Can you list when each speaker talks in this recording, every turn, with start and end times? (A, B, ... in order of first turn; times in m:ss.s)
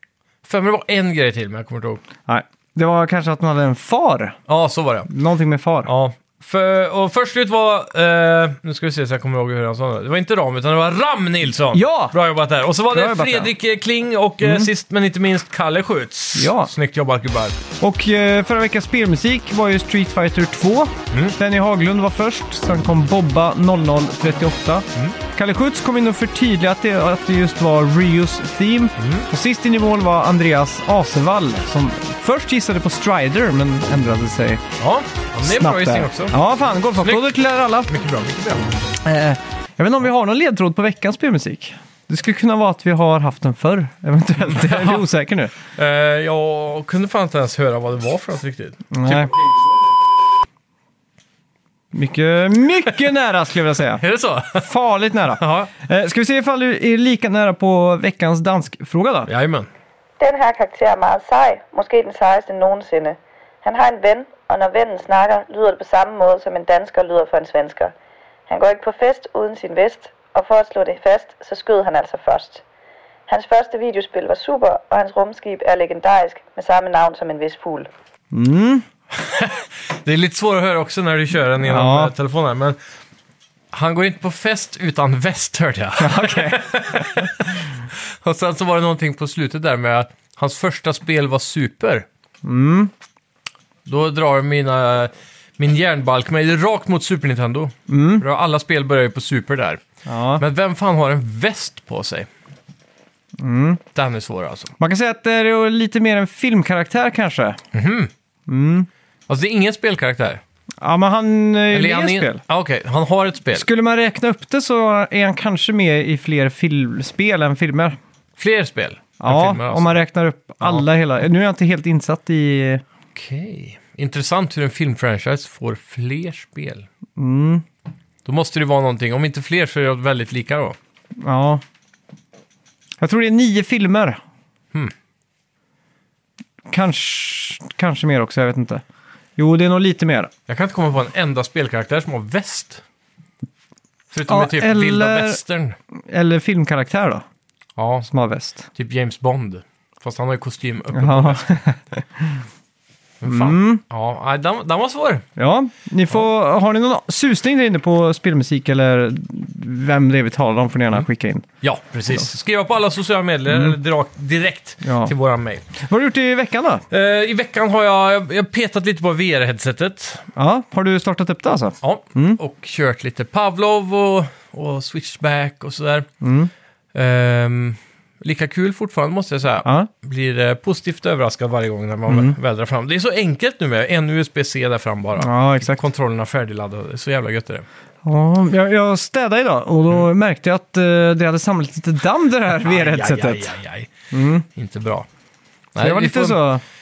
0:00.4-0:02.0 A
0:02.3-0:04.4 B
0:04.5-0:05.1 A
0:05.1-0:05.9 B
0:05.8-0:17.6 A
0:11.7-0:12.1 B
0:12.9-0:13.5 B
0:14.4-0:14.7 B
0:16.4-0:16.7 B
0:17.8-0:34.6 B
0:21.1-0:21.4 A
0:29.0-0:29.3 A
0:34.8-0:36.3 A
0:35.4-0:37.9 B
0:37.0-0:37.3 A
0:37.8-0:38.7 A
0:39.0-0:45.5 B
0:44.7-0:45.0 A
0:45.8-0:49.6 A
0:48.9-0:49.3 B
0:51.9-0:54.0 B
0:54.0-0:54.7 A
0:54.5-0:59.3 B
0:55.3-0:55.7 A
0:59.3-0:59.7 A
1:00.2-1:07.9 C
1:08.5-1:12.6 C
1:13.3-1:17.9 C
1:18.3-1:18.8 B
1:19.1-1:22.8 A
1:21.6-1:22.1 B
1:23.7-1:32.0 A
1:26.0-1:27.4 B
1:32.4-1:32.9 B
1:33.8-1:39.8 A
1:37.9-1:38.2 B
1:40.0-1:40.4 B
1:40.4-1:42.3 A
1:43.4-1:43.8 B
1:43.9-1:44.7 A
1:44.8-1:47.6 B
1:47.7-1:48.1 A
1:48.5-1:48.9 B
1:49.3-1:50.4 A
1:50.8-1:52.4 B
1:51.7-1:53.7 A
1:53.5-1:58.0 B
1:58.4-2:00.0 A
1:59.2-2:02.8 B
2:03.1-2:06.9 A
2:07.2-2:07.6 B
2:08.2-2:10.8 A
2:11.2-2:11.6 B
2:13.0-2:14.2 B
2:16.7-2:18.8 B
2:19.4-2:20.3 B
2:20.5-2:22.8 A
2:24.1-2:25.8 A
2:24.2-2:25.4 B
2:26.0-2:27.2 B
2:27.8-2:28.1 A
2:28.0-2:28.7 B
2:28.7-2:31.5 A
2:30.9-2:32.4 B
2:33.2-2:35.2 A
2:33.2-2:33.8 B
2:35.4-2:41.5 B
2:41.6-2:45.7 A
2:43.5-2:43.8 B
2:44.8-2:45.1 B
2:45.7-2:46.8 B
2:46.9-2:50.3 A
2:50.3-2:52.4 B
2:51.8-2:56.1 A
2:56.2-2:56.5 B
2:56.9-3:07.6 A
3:02.1-3:02.4 B
3:05.2-3:05.8 B
3:08.0-3:13.5 B
3:12.6-3:13.9 A
3:14.1-3:14.4 B
3:14.5-3:15.1 A
3:15.7-3:16.4 A
3:15.8-3:16.6 B